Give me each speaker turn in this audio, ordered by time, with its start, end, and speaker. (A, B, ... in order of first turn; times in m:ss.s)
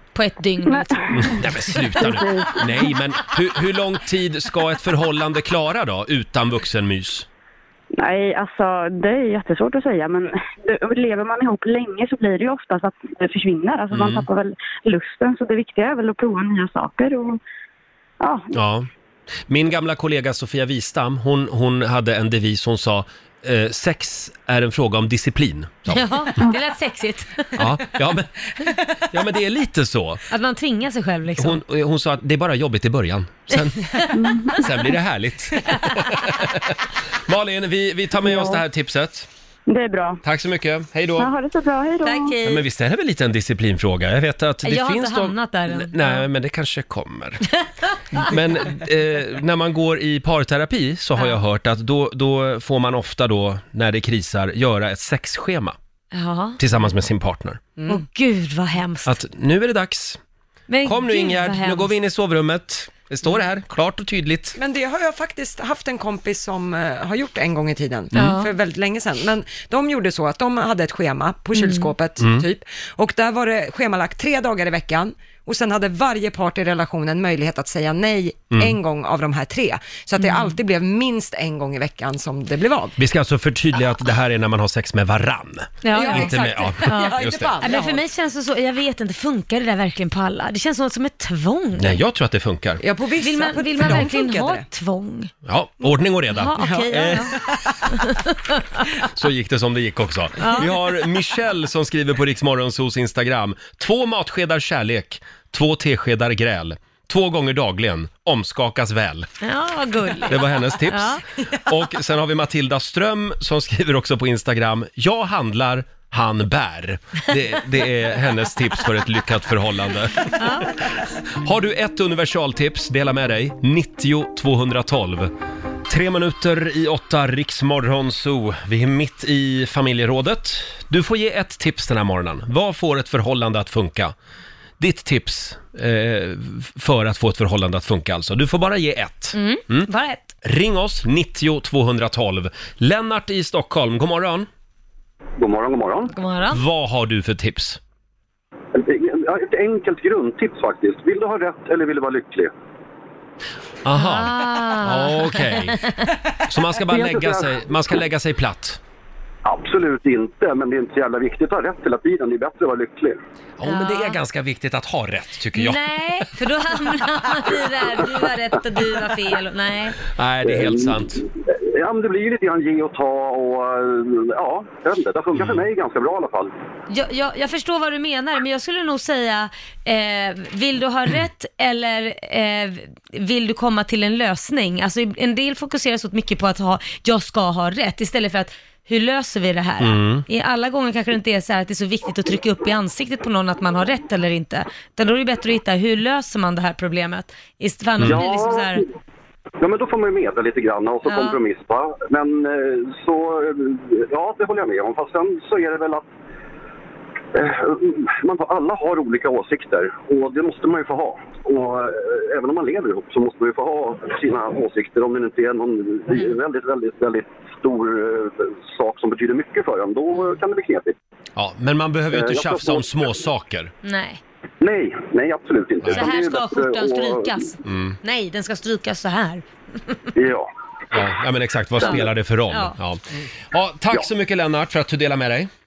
0:00.1-0:01.5 A
0:00.6-0:01.3 B
0:01.1-0:07.3 C
0:01.8-0:02.9 B
0:08.0-0:17.4 B
0:13.9-0:14.3 C
0:18.2-0:18.5 B
0:18.5-0:18.9 C
0:19.5-0:26.1 C
0:25.9-0:27.5 A
0:27.6-0:28.3 C
0:29.1-0:30.2 C
0:30.3-0:31.6 A
0:31.4-0:33.9 C
0:34.1-0:34.6 B
0:34.6-0:39.3 C
0:39.7-0:40.2 B
0:40.2-0:41.3 C
0:41.2-0:42.4 B
0:42.0-0:42.6 A
0:42.4-0:47.5 C
0:44.6-0:46.3 A
0:48.1-0:55.8 C
0:56.1-0:56.6 A
0:56.6-0:57.6 C
0:57.8-0:58.0 D
0:57.9-0:59.1 A
0:59.1-1:00.2 C
1:00.7-1:01.9 A
1:00.8-1:04.6 C
1:04.6-1:23.0 D
1:08.2-1:08.5 A
1:11.6-1:11.9 A
1:12.2-1:12.5 C
1:20.2-1:20.5 A
1:23.0-1:27.6 C
1:25.8-1:32.0 A
1:25.9-1:28.0 D
1:31.8-1:32.8 C
1:32.8-1:34.7 D
1:33.2-1:35.3 A
1:35.5-1:37.3 C
1:36.4-1:37.3 A
1:36.6-1:37.5 D
1:39.0-1:49.3 C
1:40.4-1:40.7 A
1:49.4-1:51.2 A
1:50.3-2:00.9 C
2:00.4-2:00.7 A
2:01.4-2:05.3 C
2:05.9-2:14.1 C
2:14.8-2:19.9 C
2:19.3-2:20.2 A
2:20.4-2:24.5 C
2:25.4-2:26.1 E
2:26.1-2:26.6 A
2:26.5-2:27.8 C
2:28.7-2:32.5 E
2:33.8-2:35.8 C
2:34.0-2:35.5 A
2:36.5-2:38.8 C
2:36.8-2:38.0 E
2:39.4-2:43.2 E
2:43.6-2:45.8 C
2:43.6-2:44.2 A
2:45.6-2:50.0 A
2:50.2-2:51.2 C
2:50.4-2:56.5 E
2:55.4-2:55.7 C
2:56.9-3:18.8 A
3:09.8-3:10.2 C
3:18.0-3:18.8 E
3:19.6-3:26.1 E
3:21.1-3:21.4 A
3:27.4-3:41.0 E
3:41.4-3:43.7 C
3:42.1-3:43.1 E
3:43.8-3:44.2 A
3:44.6-3:47.5 E
3:45.9-3:50.0 A
3:47.6-3:48.0 C
3:50.2-3:50.5 E
3:50.9-3:55.5 C
3:51.8-3:52.8 A